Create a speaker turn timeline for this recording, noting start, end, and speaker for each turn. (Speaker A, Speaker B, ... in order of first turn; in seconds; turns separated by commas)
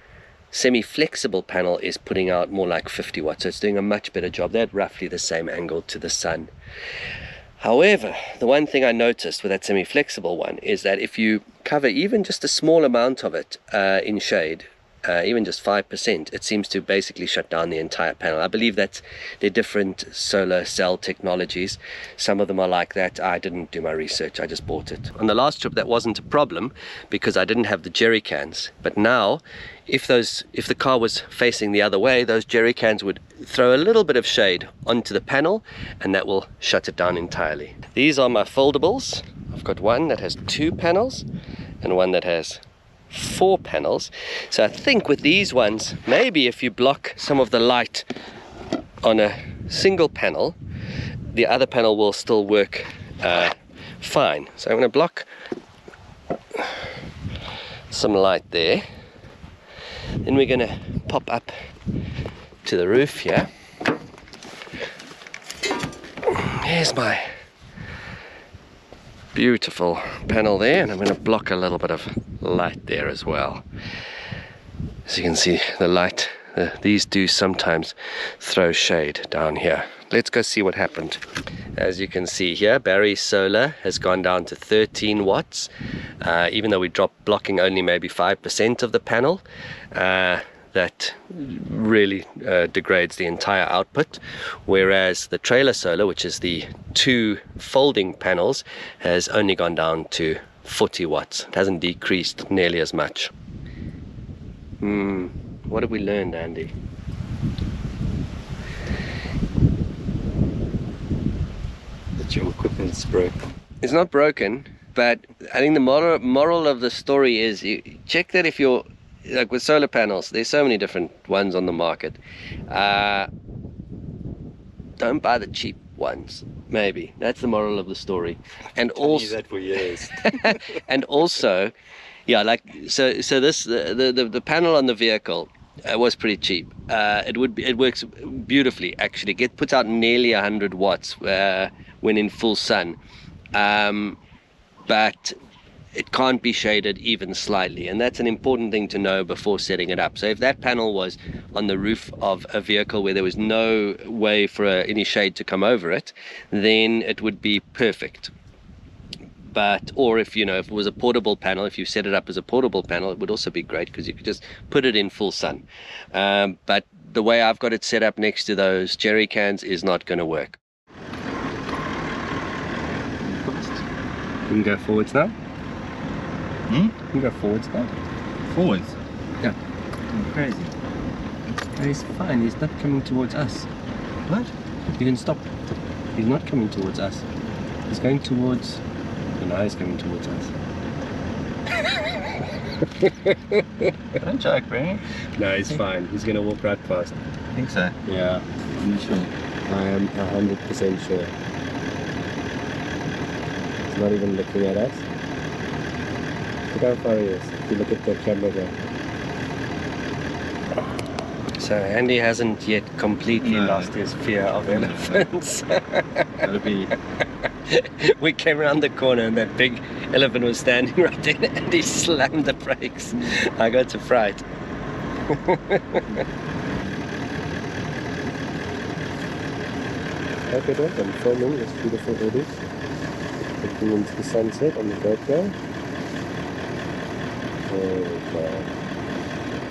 Speaker A: 0.5-6.5, Speaker A: 7.6-41.2, Speaker A: 41.8-48.1, Speaker A: 49.0-50.6, Speaker A: 51.3-55.3, Speaker A: 57.9-58.8, Speaker A: 60.2-61.5, Speaker A: 62.6-63.5, Speaker A: 66.3-67.3, Speaker A: 69.3-73.6, Speaker A: 75.1-81.2, Speaker A: 81.8-85.7, Speaker A: 86.2-103.3, Speaker A: 104.8-106.7, Speaker B: 112.2-113.5, Speaker A: 113.8-123.3, Speaker A: 125.0-129.4, Speaker B: 128.9-130.6, Speaker A: 130.2-131.7, Speaker A: 132.3-143.0, Speaker A: 143.5-144.2, Speaker A: 144.9-145.3, Speaker A: 145.9-158.3, Speaker A: 159.5-170.6, Speaker B: 173.2-173.8, Speaker A: 174.5-175.3, Speaker A: 177.0-177.9, Speaker B: 178.5-178.9, Speaker A: 180.3-180.6, Speaker A: 181.7-183.7, Speaker A: 185.0-185.4, Speaker A: 186.1-187.2, Speaker A: 187.9-188.8, Speaker A: 189.4-190.5, Speaker A: 192.8-193.9, Speaker B: 194.2-195.0, Speaker A: 195.4-197.2, Speaker B: 197.5-198.0, Speaker A: 198.0-198.4, Speaker B: 198.8-199.3, Speaker A: 199.7-201.3, Speaker A: 203.9-205.0, Speaker A: 206.7-208.7, Speaker A: 211.5-216.5, Speaker B: 216.5-216.9, Speaker A: 217.7-224.4, Speaker A: 225.3-226.2, Speaker A: 230.5-232.6, Speaker A: 233.6-235.5, Speaker A: 237.7-238.7